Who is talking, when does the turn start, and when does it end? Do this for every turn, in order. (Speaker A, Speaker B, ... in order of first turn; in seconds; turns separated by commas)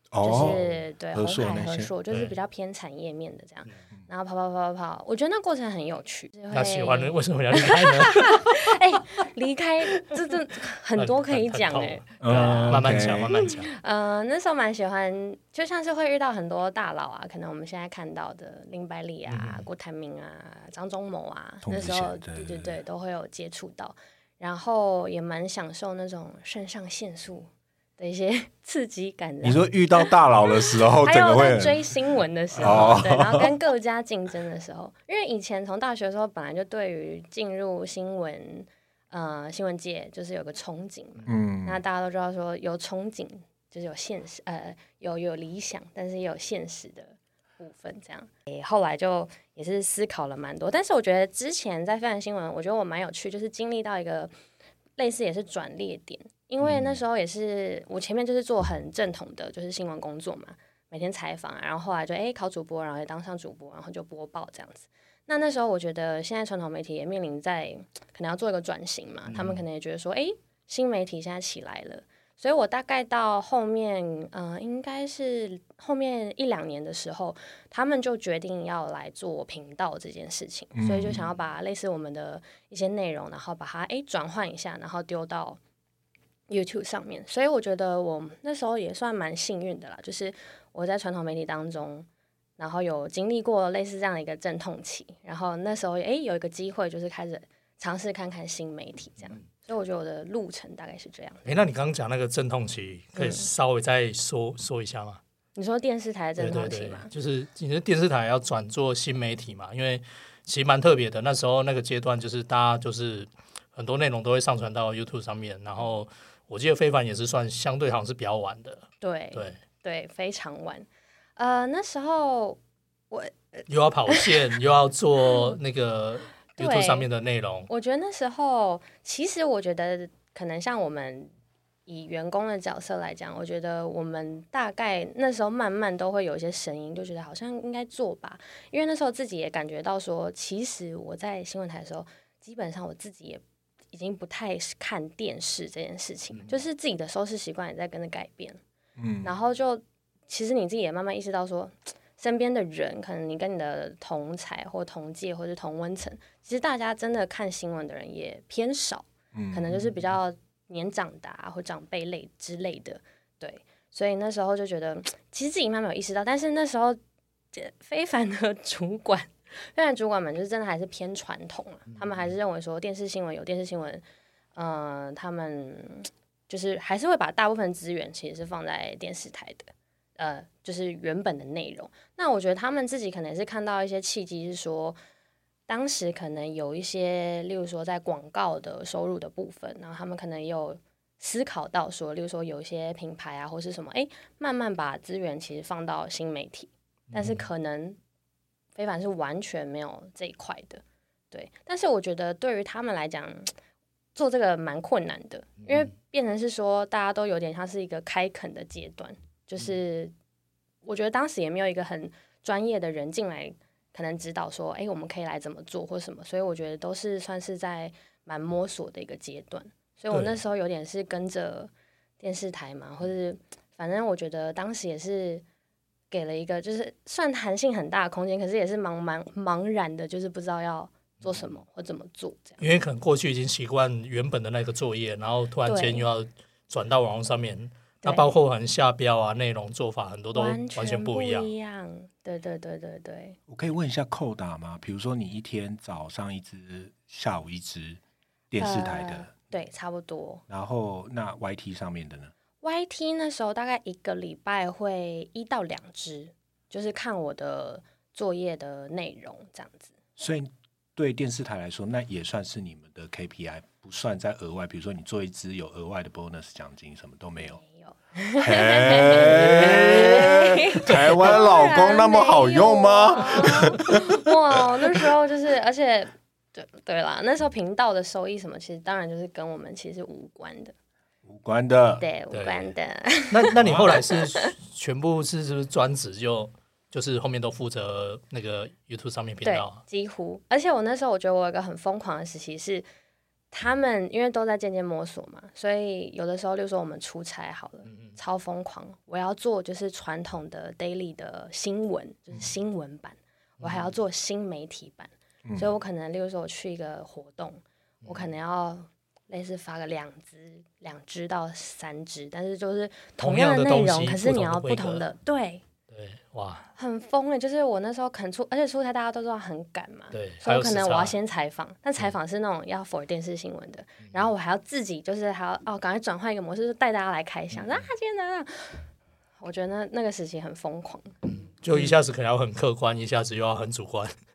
Speaker A: 0.1-1.9, Speaker B: 0.2-54.3, Speaker C: 2.1-2.4, Speaker C: 6.5-8.6, Speaker C: 11.0-13.7, Speaker A: 12.2-13.4, Speaker C: 19.3-19.7, Speaker A: 21.6-22.8, Speaker A: 29.4-31.9, Speaker C: 32.6-33.0, Speaker A: 32.6-33.5, Speaker A: 41.3-41.8, Speaker B: 55.0-85.6, Speaker C: 69.3-69.6, Speaker A: 80.7-81.2, Speaker B: 86.5-92.1, Speaker B: 92.6-101.6, Speaker C: 101.5-105.2, Speaker B: 103.2-103.5, Speaker B: 105.6-107.1, Speaker C: 106.4-119.6, Speaker B: 119.0-122.6, Speaker B: 123.1-124.5, Speaker C: 123.7-127.7, Speaker B: 125.2-125.6, Speaker B: 126.6-127.1, Speaker B: 127.7-131.3, Speaker B: 131.9-148.6, Speaker C: 146.3-146.6, Speaker A: 149.0-149.3, Speaker B: 149.2-167.0, Speaker A: 159.3-159.8, Speaker B: 167.5-174.0, Speaker C: 171.9-172.3, Speaker B: 174.6-185.0, Speaker B: 185.7-198.0, Speaker C: 197.1-197.5, Speaker B: 198.8-203.5, Speaker B: 204.2-210.1, Speaker C: 205.6-205.9, Speaker B: 210.8-225.4, Speaker C: 220.1-220.4, Speaker B: 226.1-232.6, Speaker C: 232.6-241.5, Speaker B: 235.7-236.1, Speaker B: 238.0-238.3, Speaker B: 240.3-243.4, Speaker A: 243.5-248.0, Speaker A: 248.5-249.3, Speaker B: 248.6-250.4, Speaker A: 250.5-252.3, Speaker B: 252.6-259.9, Speaker A: 260.2-267.6, Speaker B: 267.4-280.7, Speaker A: 268.4-274.3, Speaker C: 269.2-270.3, Speaker A: 281.2-282.1, Speaker B: 282.0-284.5, Speaker C: 282.3-282.7, Speaker C: 283.3-289.8, Speaker A: 283.6-284.0, Speaker B: 289.4-292.9, Speaker B: 293.5-315.6, Speaker C: 297.9-298.2, Speaker C: 303.6-303.9, Speaker A: 305.4-305.7, Speaker C: 308.0-308.3, Speaker C: 313.2-315.1, Speaker C: 315.9-316.7, Speaker B: 316.8-328.8, Speaker C: 320.1-321.1, Speaker C: 327.5-327.9, Speaker B: 329.4-331.1, Speaker C: 331.3-334.1